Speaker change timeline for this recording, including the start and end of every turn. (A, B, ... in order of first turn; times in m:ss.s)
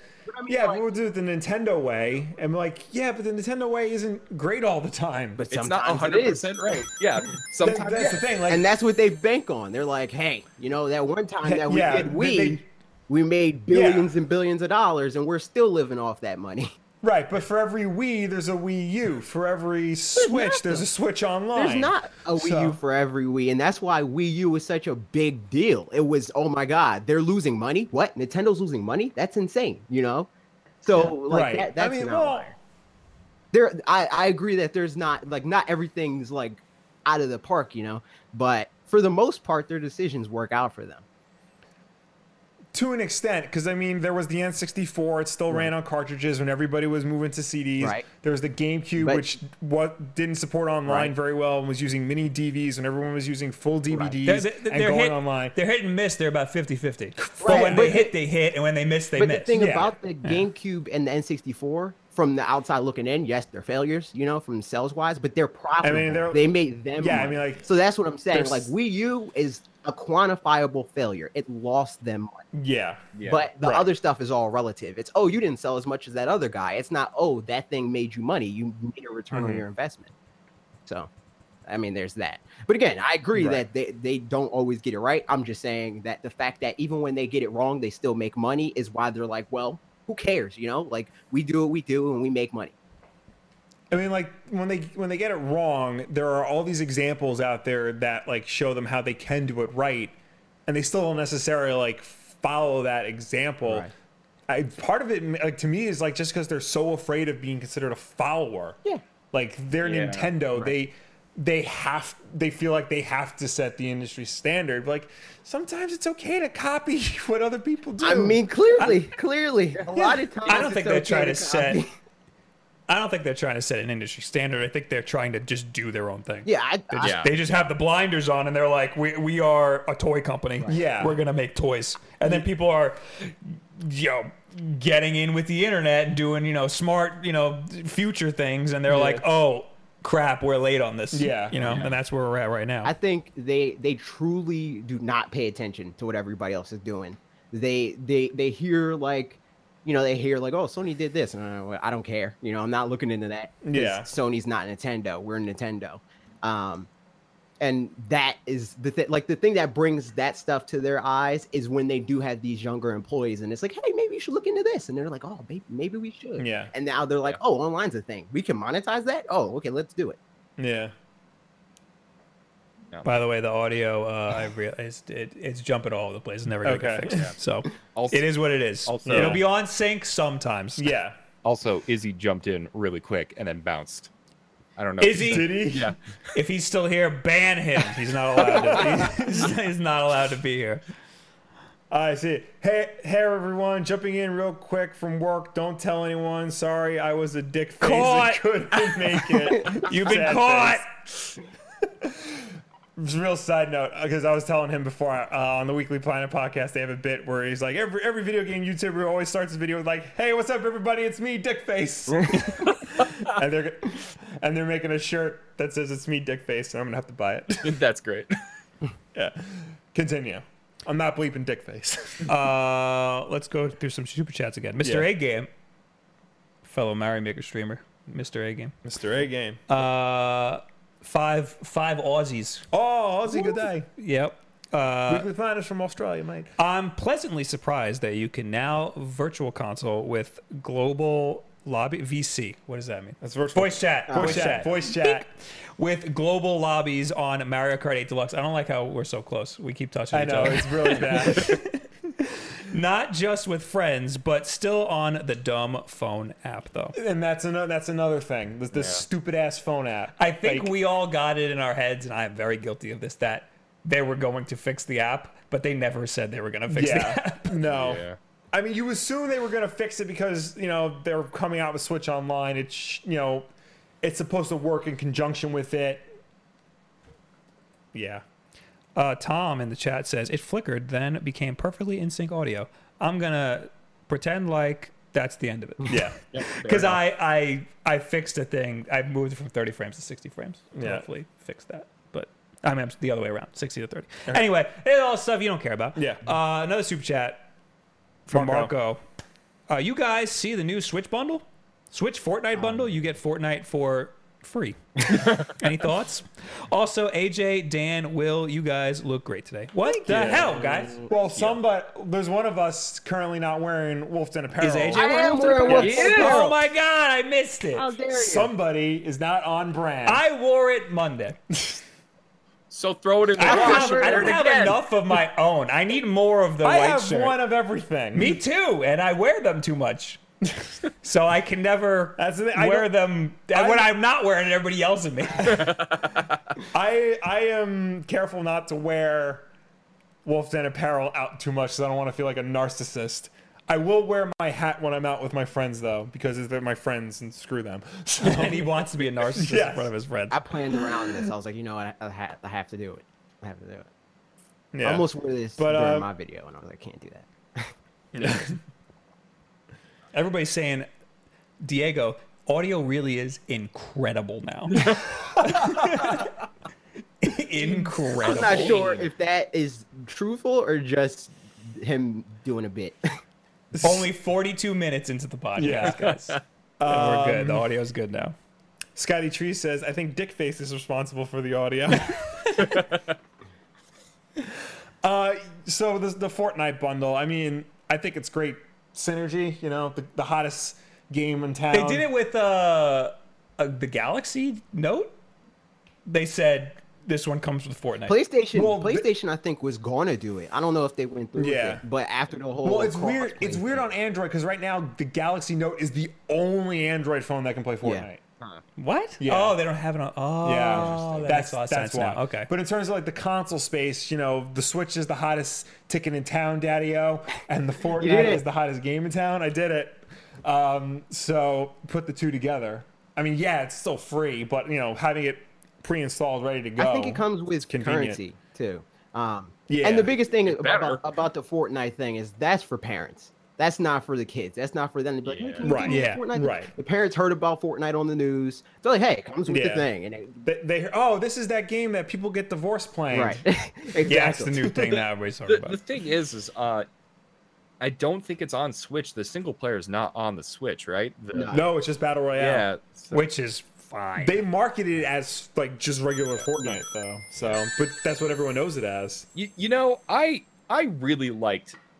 0:00.3-0:00.8 A
0:00.5-0:05.4 B
0:05.4-0:06.8 A
0:05.5-0:08.2 C
0:07.6-0:08.6 B
0:07.9-0:16.7 A
0:11.4-0:12.6 B
0:13.7-0:14.1 B
0:17.0-0:22.8 B
0:20.2-0:20.8 A
0:21.5-0:30.3 A
0:30.8-0:32.6 A
0:30.9-0:32.5 B
0:33.5-0:41.0 A
0:42.7-0:55.6 B
0:47.8-0:48.0 A
0:49.0-0:49.2 A
0:50.8-0:51.1 A
0:54.2-0:59.6 D
0:57.4-0:58.0 B
0:57.4-0:58.1 A
0:59.2-1:12.4 A
0:59.5-0:59.9 B
1:05.8-1:07.7 B
1:08.3-1:08.7 B
1:12.5-1:13.0 B
1:13.1-1:13.5 C
1:13.2-1:20.1 A
1:13.6-1:13.9 B
1:19.3-1:19.6 B
1:21.6-1:32.8 A
1:23.3-1:23.6 B
1:33.9-1:40.1 B
1:40.7-1:43.9 B
1:43.6-1:43.9 A
1:44.5-1:48.8 B
1:49.3-1:59.0 B
1:49.8-1:50.3 C
1:58.0-2:01.9 A
1:59.9-2:00.2 B
2:00.4-2:01.8 D
2:02.9-2:22.9 D
2:06.4-2:07.3 A
2:07.0-2:07.3 C
2:10.6-2:11.2 B
2:18.9-2:19.2 B
2:21.1-2:21.8 B
2:22.8-2:36.9 A
2:33.6-2:34.1 B
2:37.6-2:50.2 A
2:46.4-2:46.7 B
2:50.6-2:50.9 B
2:53.0-3:00.9 D
2:56.6-2:57.3 B
2:57.1-2:57.3 C
2:57.9-2:58.3 C
2:58.8-2:59.4 C
2:59.0-2:59.4 B
3:00.8-3:01.2 B
3:01.4-3:04.1 C
3:04.8-3:06.0 C
3:05.0-3:05.7 D
3:05.2-3:05.9 B
3:06.3-3:10.8 D
3:08.4-3:09.5 B
3:11.9-3:20.8 B
3:17.8-3:20.8 D
3:22.0-3:37.8 B
3:37.6-3:38.4 C
3:39.1-3:42.3 B
3:42.2-3:45.5 D
3:44.8-3:45.1 B
3:46.6-3:48.7 D
3:48.8-3:49.6 B
3:49.7-3:52.7 D
3:52.7-3:53.9 B
3:53.3-3:55.3 D
3:55.1-3:56.5 B
3:56.6-4:17.0 D
4:03.2-4:05.2 B
4:04.1-4:04.6 A
4:10.1-4:11.6 B
4:16.9-4:20.7 B
4:18.7-4:19.0 C
4:20.2-4:27.6 D
4:26.7-4:33.5 B
4:27.7-4:28.2 C
4:34.0-4:36.0 B
4:37.9-4:38.2 B
4:39.0-4:57.4 D
4:45.9-4:46.2 B
4:46.3-4:47.0 C
4:50.7-4:51.0 B
4:56.0-4:56.2 B
4:58.2-4:59.0 D
4:58.3-4:58.7 B
4:59.7-5:11.0 D
5:10.0-5:16.0 B
5:14.6-5:17.9 D
5:14.9-5:16.6 A
5:15.7-5:16.4 C
5:17.7-5:18.5 A
5:18.1-5:20.2 B
5:20.0-5:21.4 D
5:22.7-5:24.8 C
5:23.4-5:27.4 D
5:23.4-5:24.4 A
5:26.6-5:28.4 B
5:28.1-5:30.2 D
5:30.9-5:35.9 D
5:32.2-5:32.9 B
5:33.5-5:33.9 B
5:35.7-5:36.1 C
5:36.7-5:39.5 B
5:40.2-5:49.9 B
5:48.2-5:50.4 D
5:50.3-5:53.9 A
5:54.7-5:56.1 B
5:54.8-5:57.7 A
5:58.1-5:58.6 B
6:00.1-6:00.9 D
6:01.6-6:06.3 D
6:04.8-6:05.0 C
6:05.6-6:06.2 B
6:07.2-6:08.8 D
6:08.2-6:13.0 A
6:08.3-6:09.1 C
6:13.7-6:14.1 B
6:13.8-6:18.4 D
6:15.6-6:16.1 B
6:15.7-6:16.4 C
6:16.8-6:17.6 B
6:19.0-6:22.3 B
6:22.0-6:22.8 D
6:22.6-6:23.0 C
6:25.0-6:32.0 B
6:31.7-6:35.1 D
6:36.0-6:38.2 D
6:38.1-6:43.8 A
6:38.5-6:39.1 B
6:41.4-6:41.8 B
6:42.6-6:48.2 B
6:48.8-6:52.5 D
6:49.2-6:49.6 B
6:50.4-7:08.2 B
6:58.0-6:58.4 A
7:06.8-7:20.4 A
7:09.7-7:10.1 B
7:10.4-7:11.0 C
7:15.2-7:15.8 C
7:15.6-7:16.7 B
7:15.8-7:16.2 D
7:19.5-7:19.9 B
7:20.4-7:23.4 B
7:23.1-7:24.7 A
7:24.0-7:25.8 D
7:25.5-7:26.8 C
7:27.8-7:31.6 C
7:31.3-7:31.6 A
7:31.5-7:32.7 B
7:32.4-7:33.2 C
7:33.1-7:34.4 D
7:34.2-7:39.3 B
7:39.3-7:41.8 C